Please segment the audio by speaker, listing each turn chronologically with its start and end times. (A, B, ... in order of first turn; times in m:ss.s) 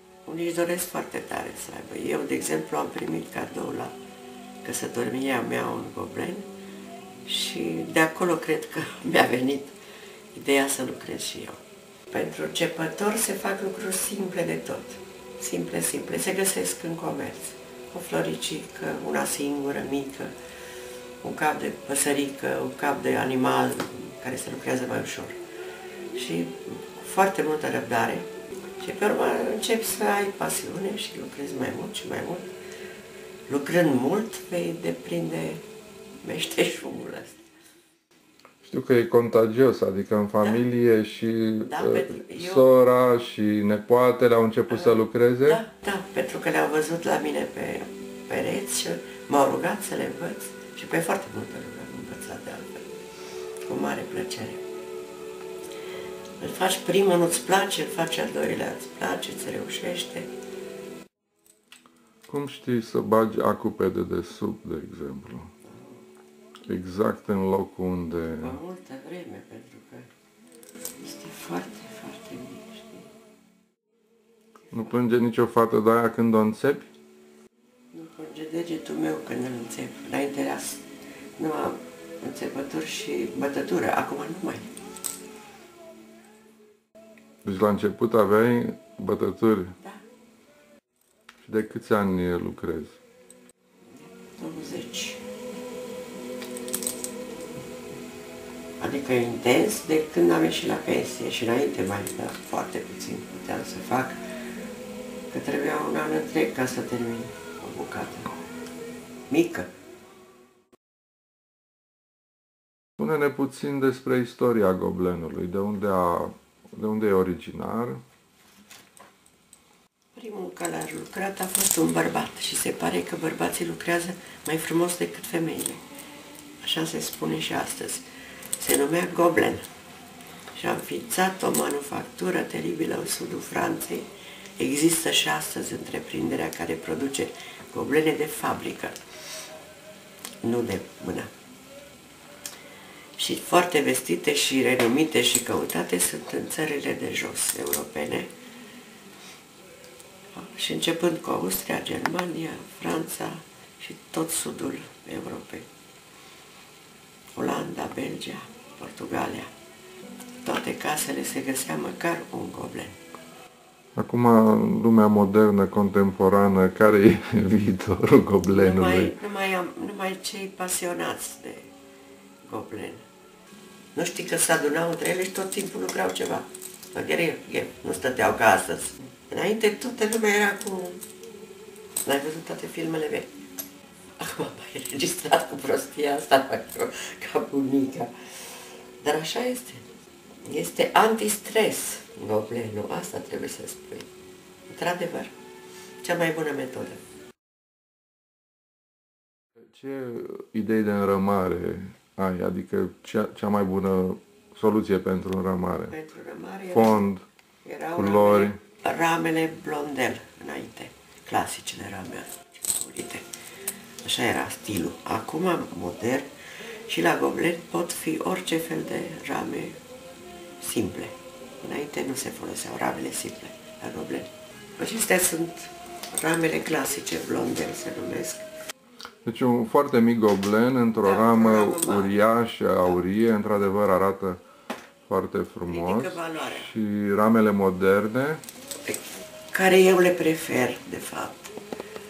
0:00.2-0:03.9 A
0:04.6-0:06.5 A
0:07.3-0:09.7 A
0:10.3-0:20.3 A
0:21.2-0:25.4 A
0:26.1-0:28.3 A
0:28.8-0:32.5 A
0:33.5-0:35.6 A
0:36.2-0:37.4 A
0:38.6-0:45.6 B
0:41.6-0:42.7 A
0:44.7-0:52.9 A
0:53.6-0:54.6 A
0:56.4-1:00.3 A
1:02.3-1:05.5 B
1:05.6-1:06.0 A
1:06.7-1:08.6 B
1:08.4-1:10.1 A
1:11.0-1:13.1 A
1:14.7-1:16.9 B
1:17.9-1:20.8 A
1:21.4-1:24.7 A
1:27.4-1:29.8 B
1:31.4-1:33.0 B
1:34.0-1:35.2 A
1:38.8-1:44.2 A
1:45.3-1:48.3 A
1:49.3-1:49.7 A
1:53.0-1:58.0 B
2:00.2-2:05.8 A
2:06.6-2:08.0 A
2:08.6-2:09.6 A
2:10.6-2:14.1 A
2:14.6-2:19.0 A
2:20.4-2:21.3 A
2:23.2-2:28.3 A
2:30.3-2:35.7 A
2:37.3-2:39.5 A
2:40.4-2:43.0 A
2:43.9-2:49.1 B
2:48.5-2:51.7 A
2:52.4-2:53.0 A
2:53.9-3:01.0 A
3:02.0-3:03.3 A
3:04.2-3:09.9 A
3:10.4-3:14.1 A
3:14.7-3:15.3 A
3:16.0-3:17.0 A
3:19.7-3:25.9 B
3:25.9-3:27.1 A
3:26.7-3:27.2 B
3:27.6-3:33.3 A
3:27.9-3:28.6 B
3:34.0-3:36.3 A
3:36.9-3:39.8 A
3:40.6-3:48.4 A
3:49.2-3:54.4 B
3:51.0-3:52.2 A
3:55.1-3:58.4 B
3:55.7-3:56.7 A
3:58.8-4:01.5 A